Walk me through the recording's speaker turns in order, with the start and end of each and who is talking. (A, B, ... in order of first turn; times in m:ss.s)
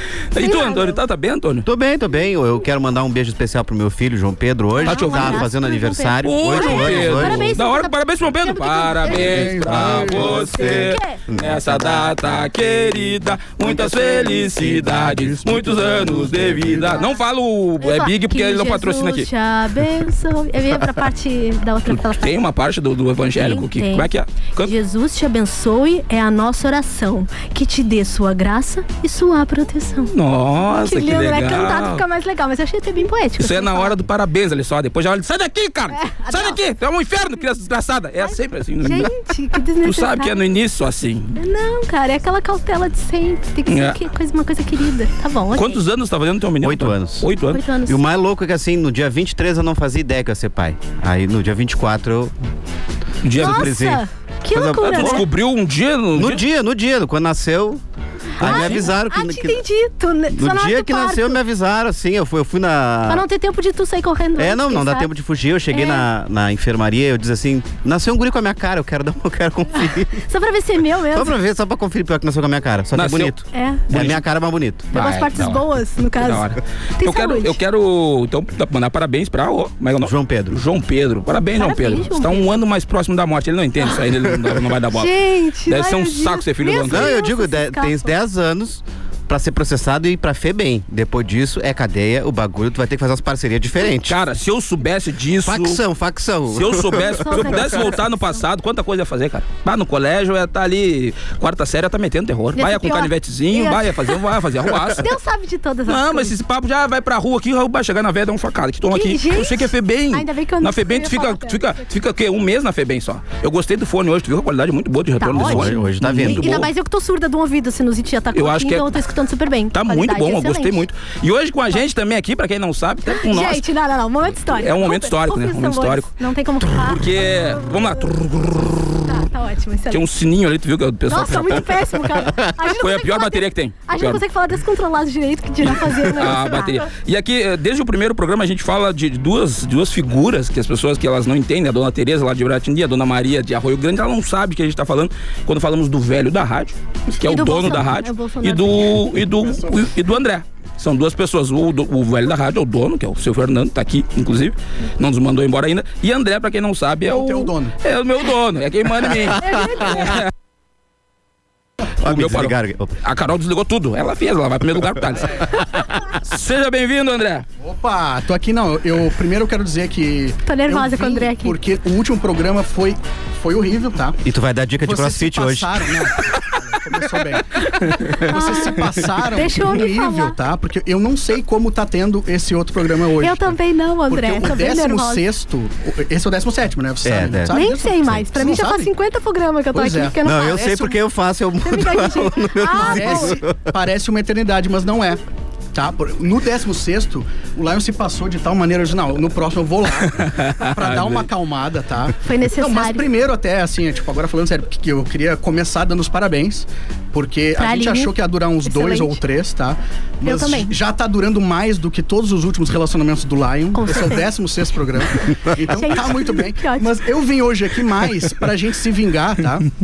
0:00.3-0:01.7 A
0:00.4-0:01.0 B
0:01.6-0:07.4 C
0:04.8-0:11.2 B
0:04.8-0:05.4 A
0:06.2-0:19.3 A
0:09.1-0:10.6 D
0:10.0-0:12.4 C
0:13.7-0:14.9 C
0:13.8-0:17.0 D
0:17.8-0:22.3 B
0:21.9-0:24.7 A
0:23.4-0:24.1 B
0:24.6-0:30.1 B
0:30.1-0:32.0 A
0:30.8-0:34.0 B
0:33.4-0:39.1 A
0:35.9-0:36.6 B
0:38.8-0:40.4 B
0:39.8-0:41.3 A
0:41.4-0:45.8 B
0:43.7-0:44.0 A
0:45.5-0:47.6 A
0:46.6-0:47.3 C
0:47.5-0:48.0 B
0:47.8-0:52.3 C
0:53.2-0:53.8 A
0:53.3-0:55.3 C
0:53.4-0:55.2 B
0:54.8-0:56.4 A
0:56.2-0:57.8 C
0:58.4-0:59.6 C
0:58.4-0:58.9 A
0:58.4-1:01.4 B
1:00.3-1:03.2 C
1:03.1-1:05.1 B
1:04.4-1:10.1 C
1:05.7-1:06.0 B
1:09.7-1:11.3 B
1:11.1-1:14.9 C
1:12.9-1:13.3 A
1:13.5-1:13.8 B
1:13.9-1:14.2 A
1:14.9-1:16.4 B
1:14.9-1:15.6 A
1:16.2-1:27.1 A
1:17.0-1:17.5 B
1:20.0-1:20.6 C
1:21.6-1:22.6 B
1:24.9-1:28.1 B
1:26.9-1:34.2 C
1:33.9-1:35.8 A
1:35.4-1:37.7 C
1:36.5-1:45.1 A
1:36.9-1:38.4 B
1:42.6-1:44.1 B
1:44.9-1:46.4 B
1:45.9-1:56.7 A
1:48.9-1:51.6 B
1:55.2-2:00.8 B
1:55.4-1:56.6 C
1:58.3-1:58.9 A
1:59.7-2:03.6 A
2:03.1-2:07.0 B
2:04.6-2:06.1 A
2:06.6-2:09.2 A
2:09.1-2:10.0 B
2:09.9-2:11.8 A
2:11.1-2:16.8 B
2:12.5-2:14.2 A
2:15.6-2:40.3 A
2:27.2-2:28.9 B
2:37.1-2:37.7 D
2:39.4-2:40.2 B
2:42.0-2:43.0 C
2:42.0-2:47.4 A
2:47.6-2:54.2 D
2:50.4-2:51.6 B
2:54.2-2:56.0 C
2:54.8-3:03.6 D
2:57.8-3:00.4 B
3:03.2-3:05.2 B
3:04.1-3:08.9 D
3:07.0-3:07.6 C
3:07.5-3:10.9 B
3:09.7-3:10.7 D
3:10.2-3:13.7 C
3:11.6-3:13.4 B
3:12.7-3:15.2 D
3:15.7-3:39.7 D
3:20.4-3:21.3 A
3:22.2-3:23.0 B
3:27.6-3:29.2 B
3:30.2-3:30.7 B
3:33.7-3:34.2 B
3:35.6-3:36.9 B